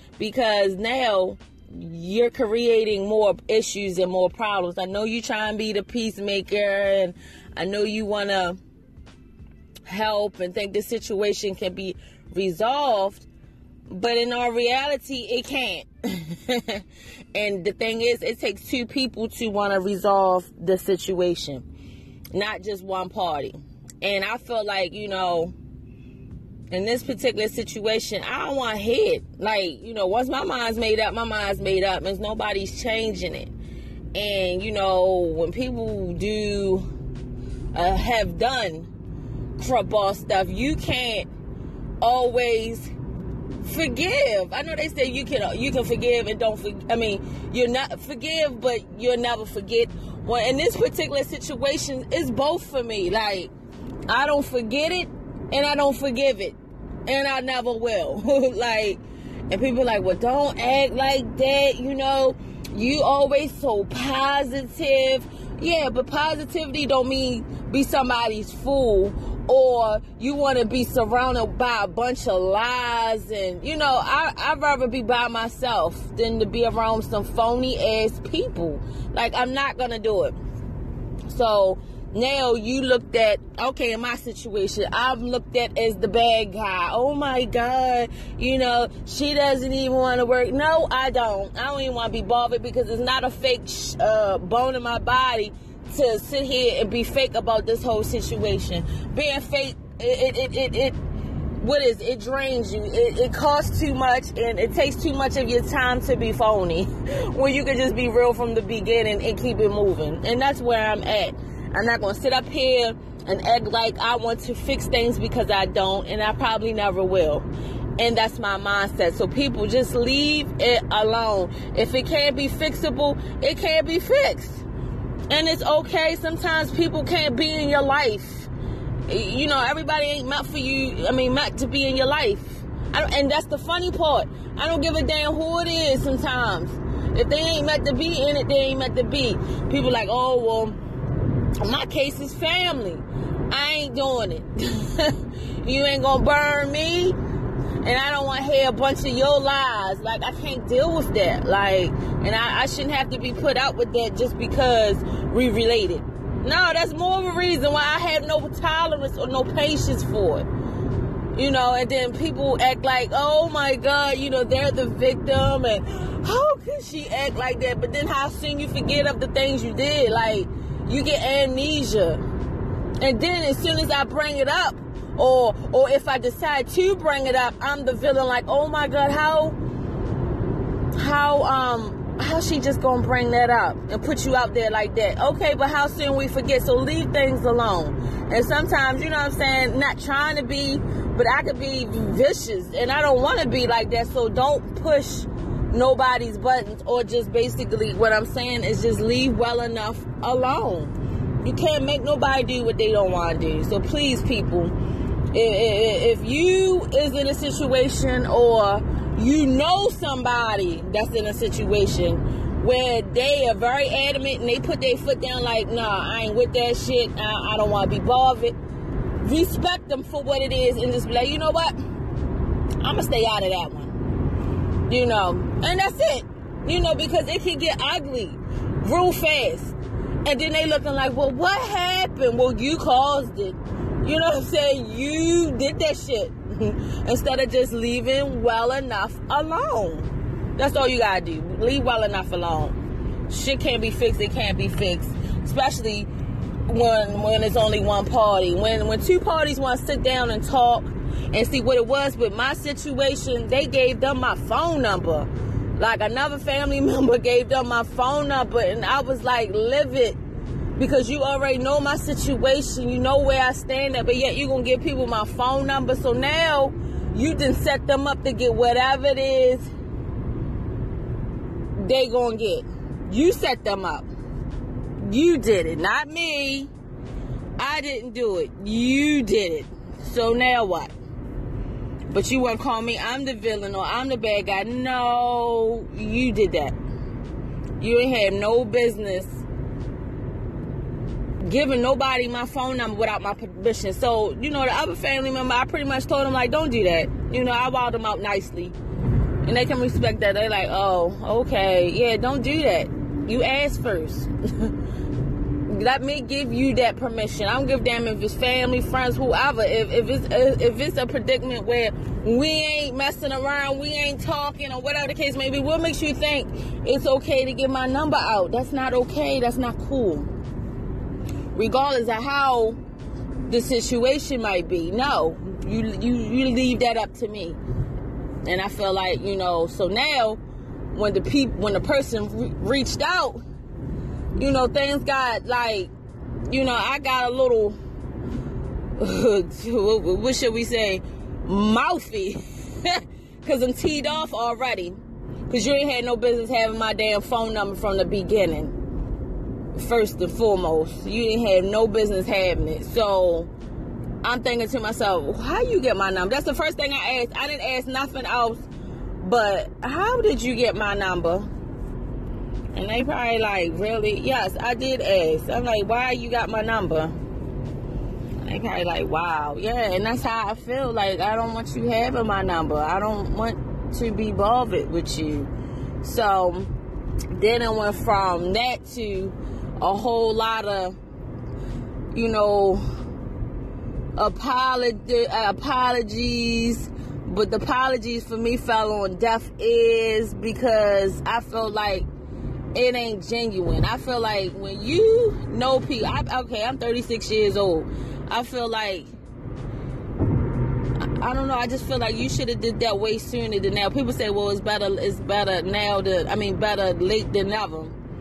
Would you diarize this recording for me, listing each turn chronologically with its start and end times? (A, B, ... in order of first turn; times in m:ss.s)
0:00.2-0:08.6 A
0:09.9-0:13.3 A
0:13.9-0:21.6 A
0:22.3-0:25.6 A
0:26.7-0:33.5 A
0:34.1-0:36.9 A
0:37.7-0:38.9 A
0:39.6-0:41.3 A
0:42.0-0:42.9 A
0:43.6-0:53.5 A
0:54.1-1:20.4 A
1:21.3-1:41.0 A
1:41.6-2:04.6 A
2:05.3-2:08.5 A
2:09.1-2:20.8 A
2:21.6-2:27.2 A
2:27.8-2:40.5 A
2:41.4-2:52.2 A
2:53.0-2:59.6 A
3:00.9-3:24.8 A
3:25.3-3:38.6 A
3:39.2-3:41.8 A
3:42.8-3:44.0 A
3:44.9-4:02.8 A
4:03.3-4:06.1 A
4:06.7-4:20.2 A
4:20.8-4:29.7 A
4:31.8-4:34.1 A
4:35.0-4:36.7 A
4:37.6-4:40.9 A
4:42.1-4:46.8 A
4:47.8-4:49.4 A
4:51.4-4:58.8 A
4:59.4-5:04.8 A
5:05.6-5:20.3 A
5:21.5-5:22.8 A
5:23.5-5:27.6 A
5:28.4-5:30.4 A
5:30.9-5:33.4 A
5:34.4-5:35.9 A
5:36.5-5:37.8 A
5:39.0-5:48.8 A
5:49.7-5:53.5 A
5:54.2-5:58.6 A
5:59.2-6:01.5 A
6:02.7-6:07.2 A
6:08.4-6:16.7 A
6:17.3-6:21.0 A
6:22.1-6:22.8 A
6:24.2-6:32.1 A
6:32.8-6:39.1 A
6:41.0-6:48.0 A